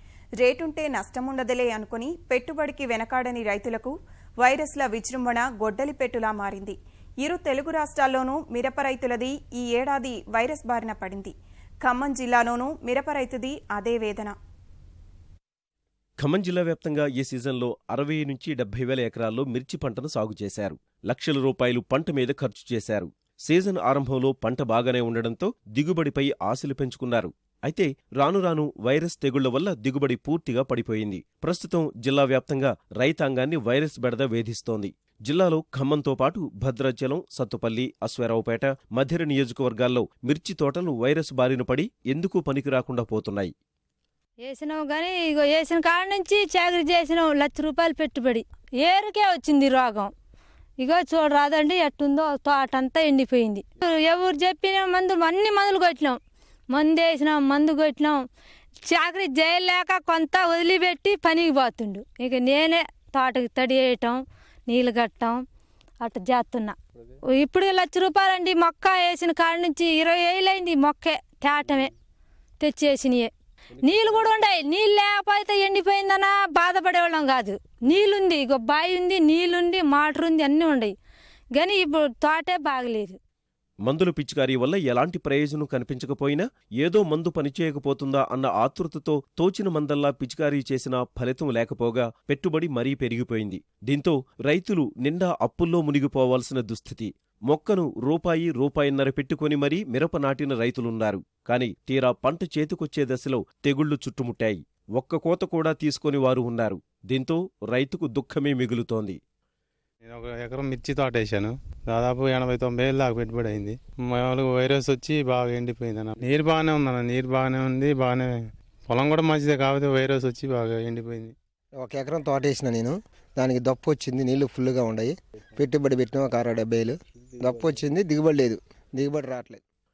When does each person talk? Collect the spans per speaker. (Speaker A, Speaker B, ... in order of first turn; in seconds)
Speaker A: 0.4-11.3, 11.8-14.3
Speaker B: 16.2-43.5, 83.8-109.2
Speaker C: 44.4-50.1, 50.8-56.2, 56.7-58.2, 58.8-65.4, 66.0-66.8, 67.3-71.9, 72.6-73.3, 73.8-80.9, 81.5-83.2
Speaker D: 110.0-121.3
Speaker E: 121.8-129.6